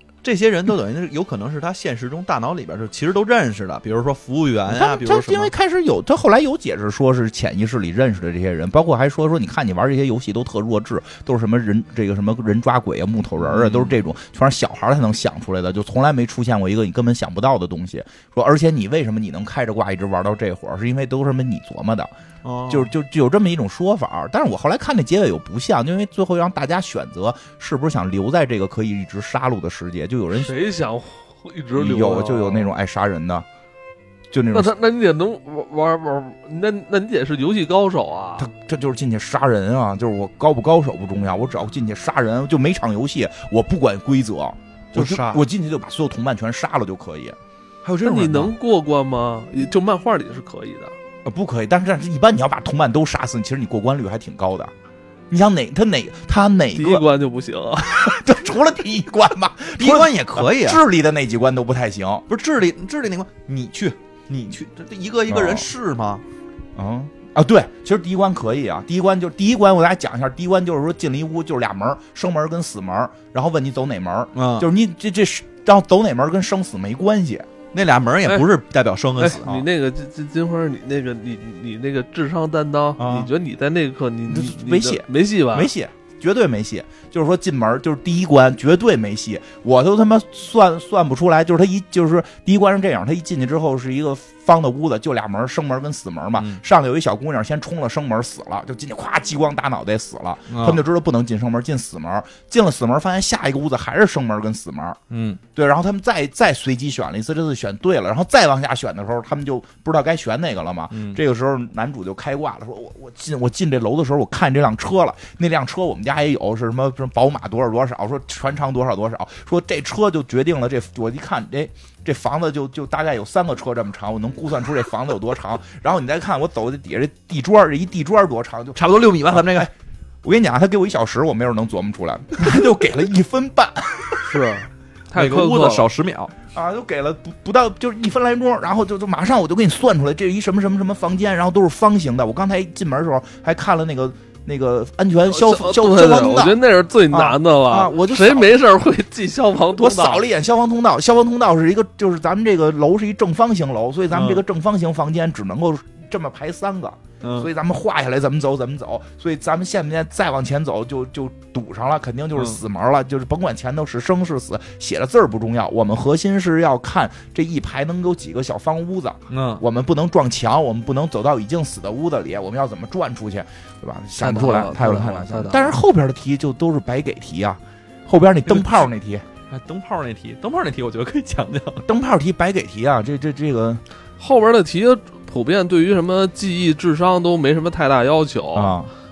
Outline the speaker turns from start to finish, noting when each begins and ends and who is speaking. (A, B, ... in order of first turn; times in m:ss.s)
0:00.2-0:05.5 A
0:04.7-0:22.1 B
0:13.4-0:14.0 A
0:22.4-0:22.9 A
0:22.7-0:30.6 B
0:30.3-0:32.7 C
0:31.8-0:33.5 B
0:34.3-0:34.7 B
0:34.5-0:38.5 C
0:38.4-0:47.4 B
0:44.9-0:45.4 A
0:47.8-0:48.5 A
0:48.0-0:51.0 C
0:51.2-0:54.7 B
0:55.3-0:57.0 B
0:56.8-0:58.0 C
0:57.8-1:02.2 B
0:59.8-1:00.8 A
1:02.3-1:06.2 A
1:05.3-1:05.7 B
1:06.8-1:17.5 B
1:14.4-1:14.7 A
1:17.7-1:19.6 A
1:19.2-1:25.7 C
1:23.0-1:23.3 B
1:24.3-1:45.0 B
1:36.4-1:36.6 A
1:40.5-1:40.8 A
1:45.1-1:45.4 A
1:45.6-2:08.8 B
1:50.9-1:51.2 A
2:08.8-2:09.7 A
2:09.3-2:09.7 B
2:10.2-2:14.4 B
2:14.2-2:15.9 C
2:15.2-2:16.3 A
2:16.5-2:26.6 B
2:25.3-2:30.2 C
2:27.1-2:28.5 B
2:29.8-2:59.2 B
2:34.1-2:34.4 A
2:37.2-2:37.5 A
2:49.3-2:49.6 A
2:54.2-2:55.8 C
2:58.5-2:58.9 A
2:59.5-3:01.9 A
3:01.8-3:03.8 B
3:04.2-3:08.8 C
3:08.5-3:08.9 B